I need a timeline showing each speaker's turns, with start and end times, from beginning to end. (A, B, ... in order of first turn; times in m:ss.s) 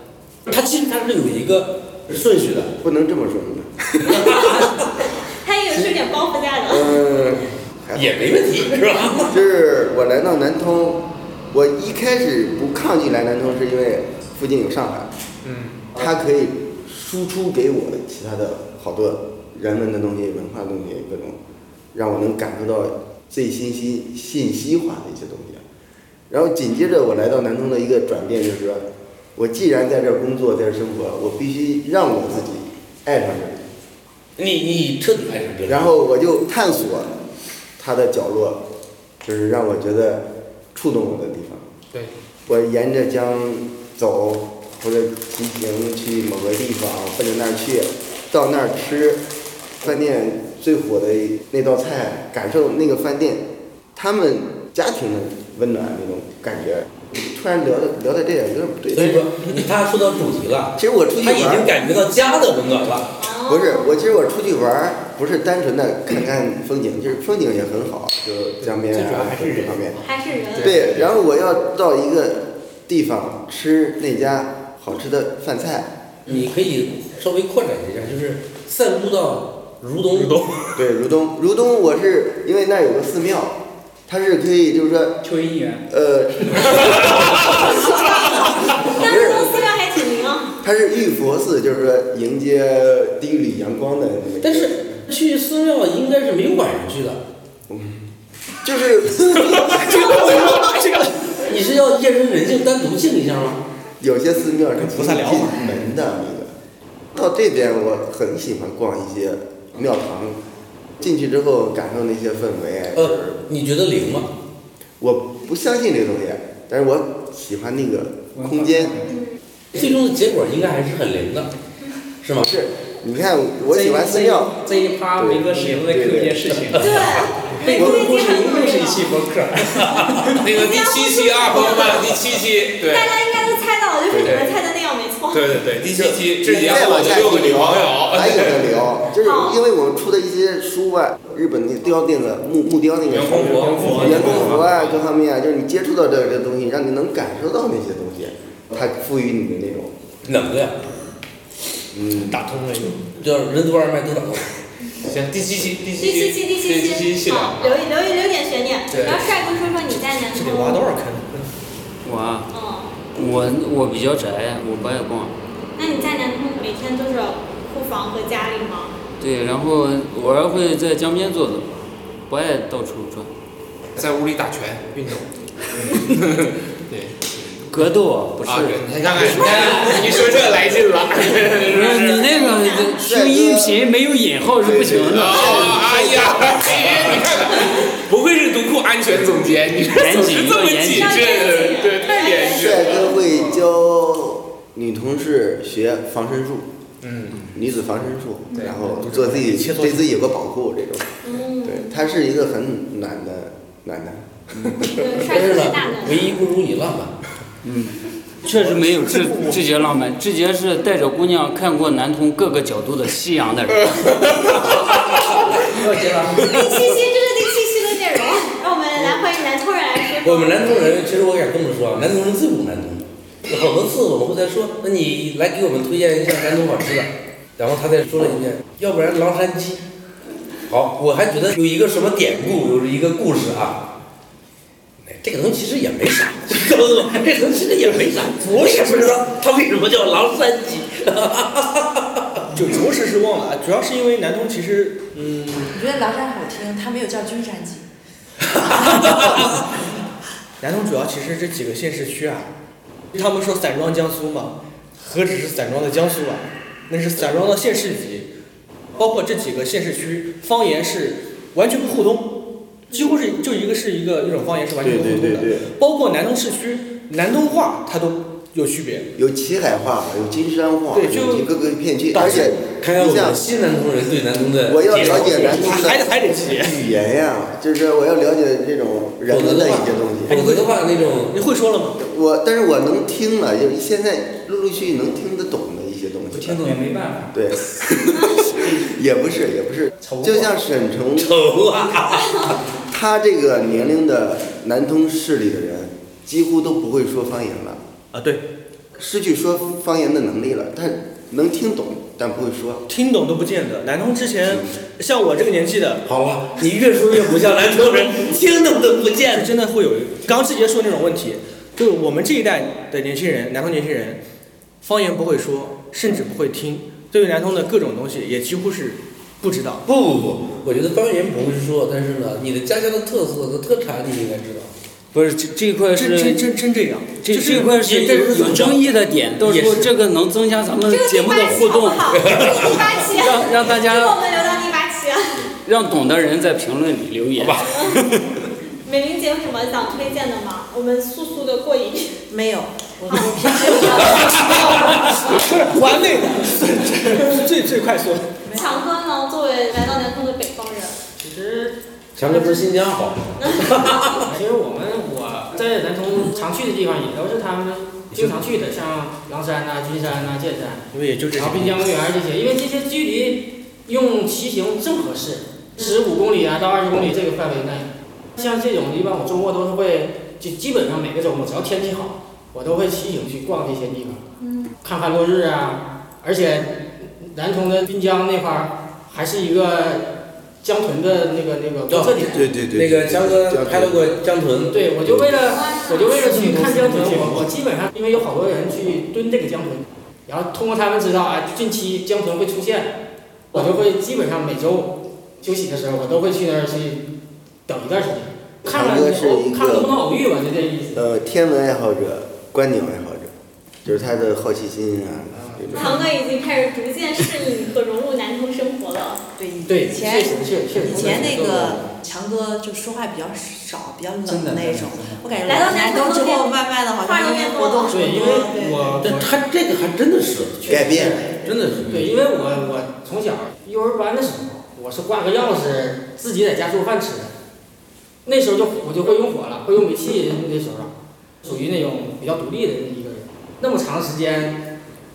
0:00.4-0:02.7 A
0:02.8-0:04.4 B
0:04.0-0:04.9 A
0:05.4-0:07.0 C
0:06.7-0:08.4 B
0:07.9-0:09.4 A
0:09.3-0:15.1 B
0:15.4-0:15.9 D
0:15.9-0:21.4 B
0:21.9-0:25.6 B
0:26.3-0:33.6 B
0:34.4-0:35.9 A
0:35.7-0:37.2 B
0:37.8-0:38.6 B
0:39.2-0:41.6 B
0:42.5-0:49.2 B
0:49.8-0:59.3 B
0:58.9-1:03.1 A
1:00.8-1:01.7 B
1:03.2-1:03.9 C
1:03.4-1:10.0 B
1:08.6-1:09.1 D
1:08.9-1:09.7 A
1:10.0-1:11.0 C
1:10.4-1:11.0 D
1:10.6-1:15.9 B
1:16.2-1:20.5 A
1:20.8-1:25.2 B
1:25.2-1:25.8 E
1:25.9-1:29.7 B
1:27.6-1:30.6 C
1:30.6-1:34.8 B
1:34.4-1:37.2 A
1:37.7-1:38.1 B
1:38.6-1:40.4 B
1:39.3-1:41.4 F
1:41.4-1:43.6 A
1:44.0-1:46.5 B
1:44.8-1:45.8 F
1:47.1-1:50.4 B
1:51.0-1:53.4 B
1:52.9-1:54.3 A
1:55.0-1:58.9 B
1:58.3-1:59.2 E
1:59.7-2:01.5 A
2:02.2-2:02.5 A
2:02.4-2:04.6 B
2:03.7-2:10.4 E
2:05.1-2:06.5 B
2:06.8-2:09.2 C
2:07.8-2:08.0 B
2:09.7-2:10.3 A
2:10.4-2:13.2 D
2:10.5-2:12.1 C
2:12.8-2:15.5 C
2:14.1-2:14.4 B
2:14.2-2:14.6 D
2:15.3-2:18.8 D
2:15.9-2:29.9 B
2:19.2-2:19.6 C
2:23.1-2:25.0 D
2:23.8-2:24.5 F
2:30.2-2:30.8 A
2:31.9-2:32.4 B
2:32.1-2:33.0 F
2:33.1-2:34.5 A
2:35.0-2:37.8 D
2:36.0-2:40.8 C
2:38.9-2:39.3 D
2:40.3-2:41.5 F
2:42.0-2:42.5 G
2:42.5-2:43.0 C
2:43.1-2:45.4 G
2:45.8-2:48.9 C
2:49.2-2:53.3 G
2:54.0-2:57.8 D
2:57.7-3:00.1 G
2:58.4-3:02.2 D
3:01.7-3:06.2 G
3:02.2-3:03.0 C
3:03.0-3:03.8 B
3:04.6-3:05.9 B
3:05.1-3:13.5 D
3:09.9-3:11.1 G
3:10.8-3:13.1 C
3:12.5-3:16.7 B
3:17.0-3:17.5 D
3:17.5-3:25.1 B
3:18.9-3:20.0 F
3:21.2-3:22.1 C
3:24.9-3:26.3 C
3:25.2-3:27.1 A
3:27.7-3:27.9 G
3:28.4-3:33.9 G
3:28.5-3:29.6 F
3:35.7-3:36.5 E
3:36.4-3:40.8 C
3:40.2-3:49.8 A
3:50.7-3:53.8 A
3:55.0-4:02.4 A
4:02.5-4:05.8 F
4:05.7-4:07.9 H
4:08.6-4:09.2 A
4:10.6-4:12.5 F
4:13.1-4:18.3 F
4:19.0-4:22.3 F
4:22.9-4:29.1 F
4:24.8-4:25.7 B
4:29.2-4:33.4 B
4:30.9-4:31.5 F
4:32.1-4:35.9 A
4:34.6-4:40.4 B
4:34.9-4:36.8 F
4:39.3-4:41.4 A
4:40.3-4:42.0 F
4:42.0-4:46.6 B
4:46.3-4:47.4 E
4:47.3-4:51.3 B
4:50.0-4:50.5 E
4:51.2-4:52.6 A
4:52.9-4:57.8 B
4:58.1-4:58.4 F
4:59.0-5:02.8 B
5:02.9-5:06.0 F
5:06.0-5:09.5 A
5:09.3-5:14.2 F
5:14.8-5:19.8 F
5:19.9-5:24.7 A
5:25.1-5:26.4 G
5:25.9-5:27.8 F
5:27.2-5:34.2 G
5:27.7-5:28.9 A
5:29.4-5:29.9 A
5:30.8-5:35.5 C
5:32.2-5:32.8 A
5:35.6-5:38.2 G
5:37.4-5:37.8 A
5:37.6-5:38.0 C
5:38.8-5:42.2 C
5:42.3-5:44.4 H
5:43.0-5:44.9 C
5:45.1-5:48.4 F
5:48.4-5:48.7 H
5:48.5-5:51.0 C
5:51.2-5:51.8 I
5:52.2-5:54.3 A
5:53.4-5:53.7 C
5:54.2-6:14.3 I
6:00.9-6:01.9 F
6:14.4-6:14.7 C
6:14.8-6:22.4 I
6:21.9-6:25.3 A
6:22.3-6:24.1 B
6:24.7-6:32.9 I
6:25.4-6:26.4 C
6:26.8-6:27.4 A
6:33.5-6:37.1 I
6:37.7-6:41.0 I
6:38.7-6:40.0 B
6:40.9-6:43.3 B
6:43.8-6:46.0 B
6:45.5-6:45.9 I
6:45.7-6:49.2 C
6:49.4-6:59.0 H
6:49.6-6:51.9 I
6:50.9-6:51.4 E
6:54.2-6:55.4 E
6:55.4-6:58.5 C
6:57.9-6:59.3 I
6:59.0-7:02.2 A
7:00.7-7:01.3 B
7:01.8-7:07.3 I
7:08.2-7:10.9 I
7:11.4-7:14.6 I